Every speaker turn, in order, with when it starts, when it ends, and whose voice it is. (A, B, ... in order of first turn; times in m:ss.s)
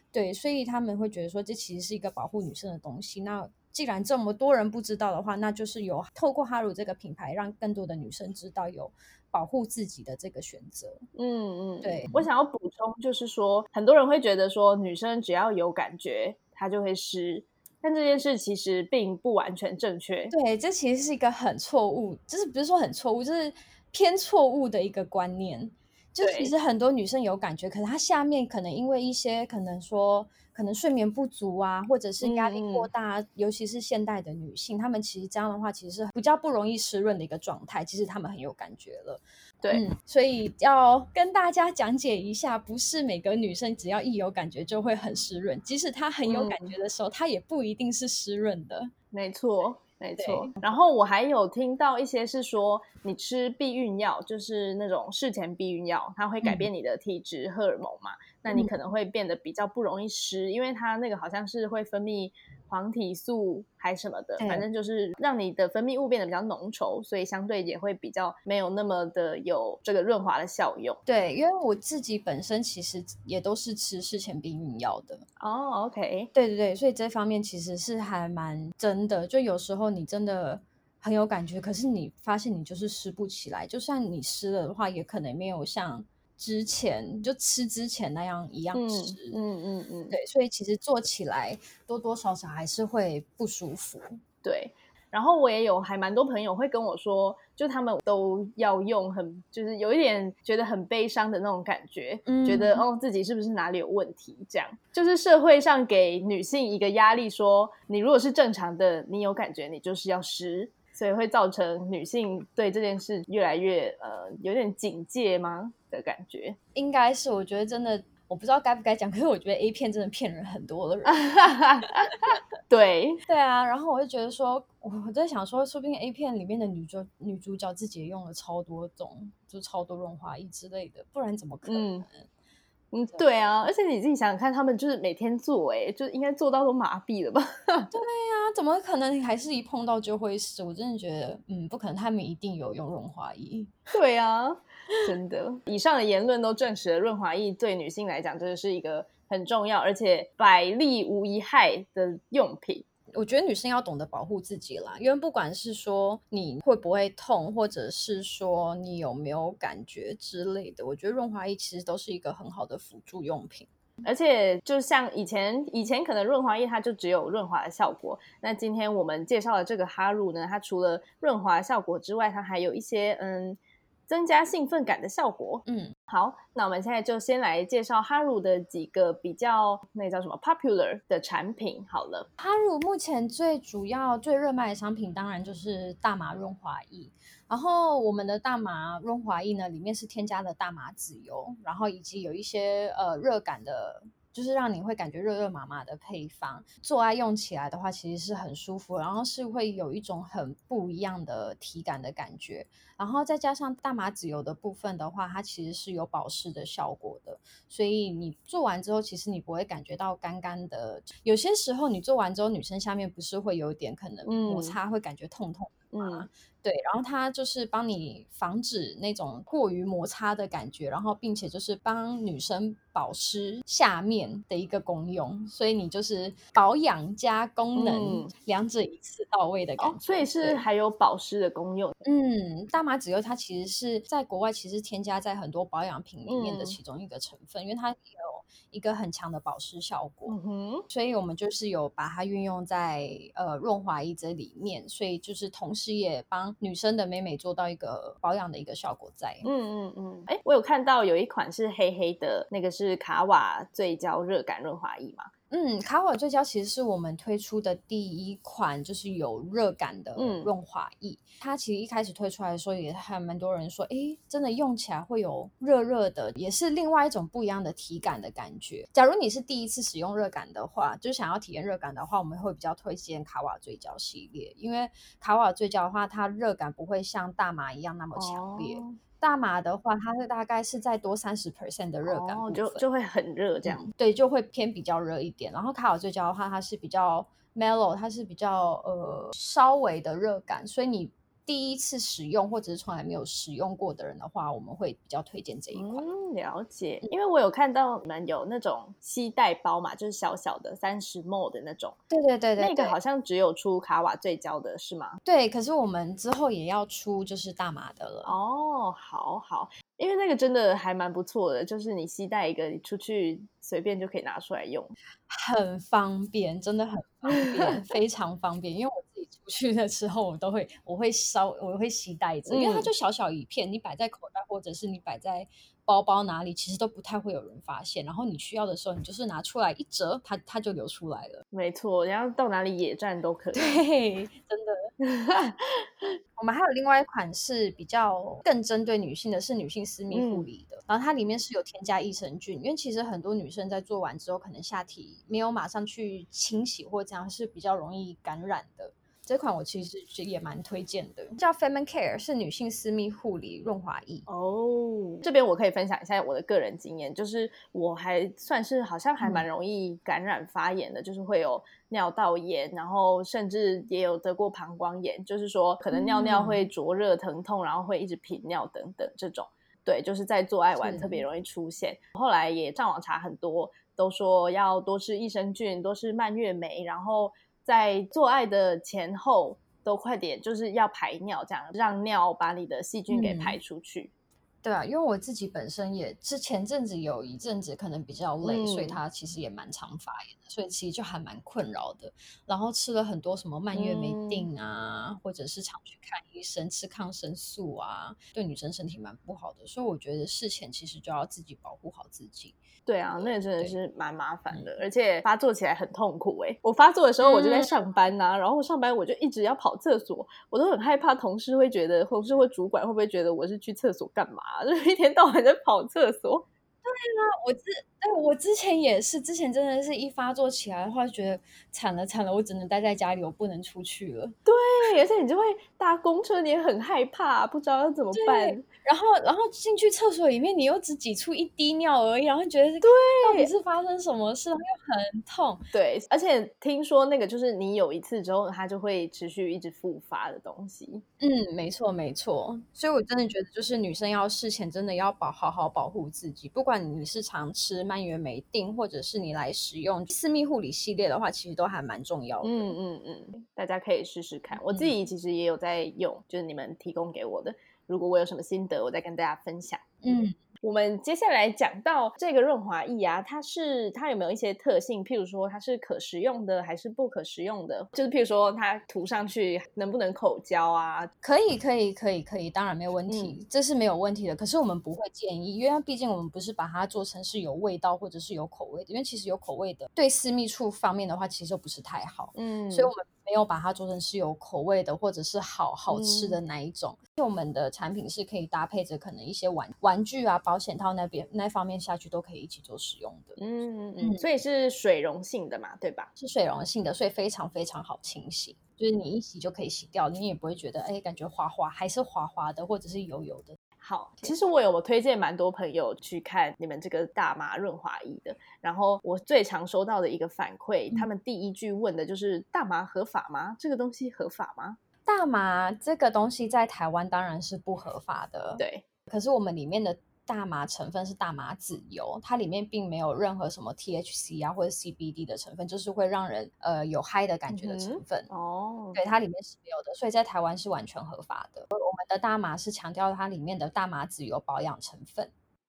0:00.1-0:11.0 A
0:11.2-0:20.3 B
0:11.8-0:12.3 A
0:20.3-0:48.9 A
0:26.2-0:26.5 B
0:32.2-0:32.9 B
0:46.3-0:46.7 B
0:49.1-1:11.0 B
0:50.2-0:50.5 A
0:56.4-0:56.7 A
1:04.4-1:04.6 A
1:11.1-1:15.2 A
1:15.4-1:16.3 B
1:16.3-1:29.4 A
1:28.7-1:30.2 B
1:30.1-1:34.2 A
1:34.4-1:56.6 B
1:42.3-1:42.8 A
1:56.8-2:01.5 A
2:01.1-2:03.2 B
2:03.3-2:12.3 A
2:11.7-2:12.1 B
2:12.9-2:17.9 B
2:17.9-2:23.7 A
2:23.9-2:32.8 B
2:33.1-2:43.7 A
2:44.0-3:02.3 B
2:55.7-2:56.0 A
3:02.4-3:50.7 A
3:34.3-3:34.8 B
3:35.9-3:36.3 B
3:47.8-3:48.3 B
3:49.8-3:52.0 B
3:52.0-4:00.4 A
3:56.3-3:56.8 B
4:00.3-4:00.9 B
4:00.9-4:09.5 A
4:09.4-4:15.3 B
4:15.5-4:42.8 A
4:20.2-4:20.5 B
4:38.2-4:39.0 B
4:42.0-4:43.8 B
4:43.7-4:56.0 A
4:55.7-5:02.0 B
5:02.1-5:03.0 A
5:02.6-5:05.2 B
5:05.2-5:08.4 A
5:08.2-5:15.0 B
5:15.3-5:31.4 A
5:22.5-5:22.9 B
5:31.5-5:33.8 B
5:33.5-5:34.9 A
5:35.0-5:36.2 B
5:36.4-5:54.2 A
5:40.1-5:40.5 B
5:54.3-6:24.1 B
5:59.2-5:59.5 A
6:05.9-6:06.7 A
6:10.8-6:11.2 A
6:23.1-6:23.6 A
6:24.6-6:42.6 A
6:28.4-6:29.0 B
6:33.7-6:34.5 B
6:42.9-6:56.5 B
6:43.2-6:43.7 A
6:47.2-6:47.7 A
6:56.8-7:04.4 A
7:04.5-7:08.6 B
7:08.1-7:15.6 A
7:12.8-7:13.5 B
7:15.7-7:21.0 B
7:21.2-7:32.7 A
7:32.4-7:39.8 B
7:40.0-7:40.4 A
7:40.6-7:51.1 B
7:51.2-8:13.4 A
7:53.1-7:53.4 B
8:02.4-8:02.9 B
8:05.9-8:06.4 B
8:13.4-8:16.1 B
8:16.2-8:23.6 A
8:23.8-8:34.8 B
8:35.1-8:48.3 A
8:38.6-8:38.8 B
8:47.5-8:49.0 B
8:49.0-8:55.3 A